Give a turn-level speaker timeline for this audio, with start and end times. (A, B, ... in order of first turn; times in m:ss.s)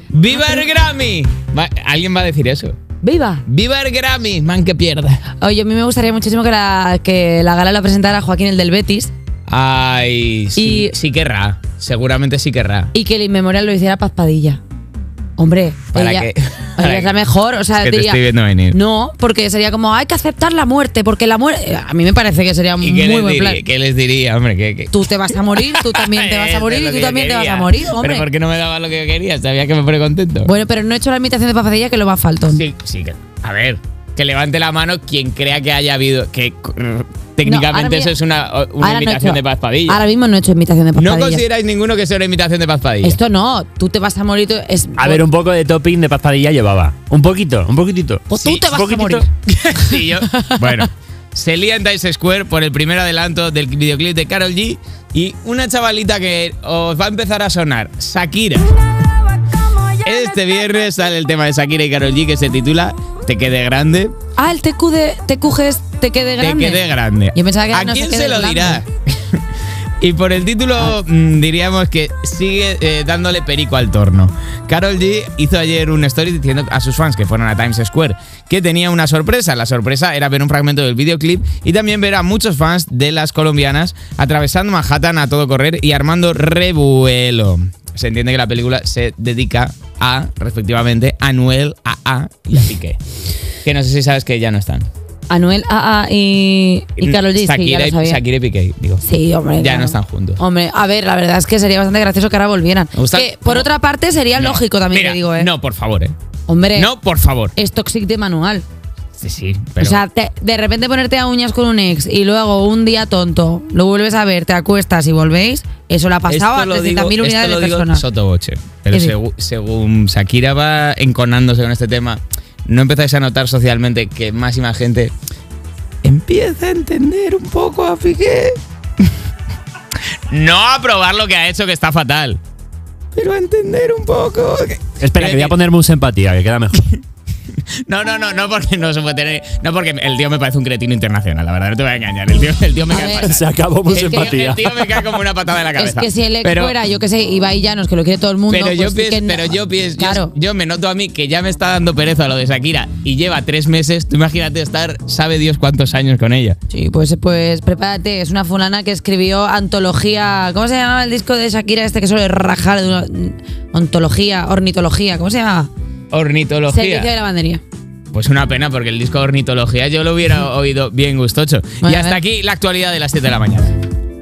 0:00.1-0:02.8 A
0:03.0-0:03.4 B
0:03.5-0:05.2 A
0:05.4-0:09.1 B
0:09.5-0:12.9 A
0:10.6-0:10.9 B
0:12.9-0:14.6 B
0:15.4-0:23.6 B
0:15.9-0:17.1 A
0:17.8-0:18.8 A
0:22.8-0:30.5 A
0:24.9-0:28.3 B
0:30.4-0:32.6 B
0:32.5-0:40.0 A
0:37.4-0:38.2 B
0:38.8-0:41.4 B
0:41.0-0:43.2 A
0:43.0-0:45.3 B
0:45.0-0:49.2 C
0:48.3-0:49.3 B
0:48.4-0:48.8 A
0:49.5-0:58.7 A
0:50.1-0:50.7 B
1:00.0-1:04.2 A
1:04.4-1:08.8 B
1:06.4-1:08.9 A
1:10.0-1:33.0 A
1:33.6-1:34.9 A
1:35.3-1:38.2 B
1:37.0-1:39.0 A
1:39.0-1:45.5 B
1:39.6-1:40.4 A
1:43.0-1:43.7 A
1:44.4-1:46.1 A
1:46.5-1:46.9 B
1:46.8-1:47.5 A
1:47.6-1:48.6 B
1:49.2-1:50.0 A
1:49.8-1:58.1 B
1:56.3-2:05.1 A
2:06.0-2:08.6 A
2:10.3-2:12.4 A
2:13.2-2:15.6 A
2:15.0-2:17.0 C
2:17.9-2:26.7 A
2:22.9-2:23.4 B
2:23.0-2:25.0 C
2:23.9-2:24.3 B
2:25.8-2:30.3 B
2:28.5-2:36.6 A
2:36.7-2:45.7 B
2:46.1-2:47.1 A
2:46.7-2:47.6 B
2:48.1-2:53.7 A
2:51.8-2:52.2 B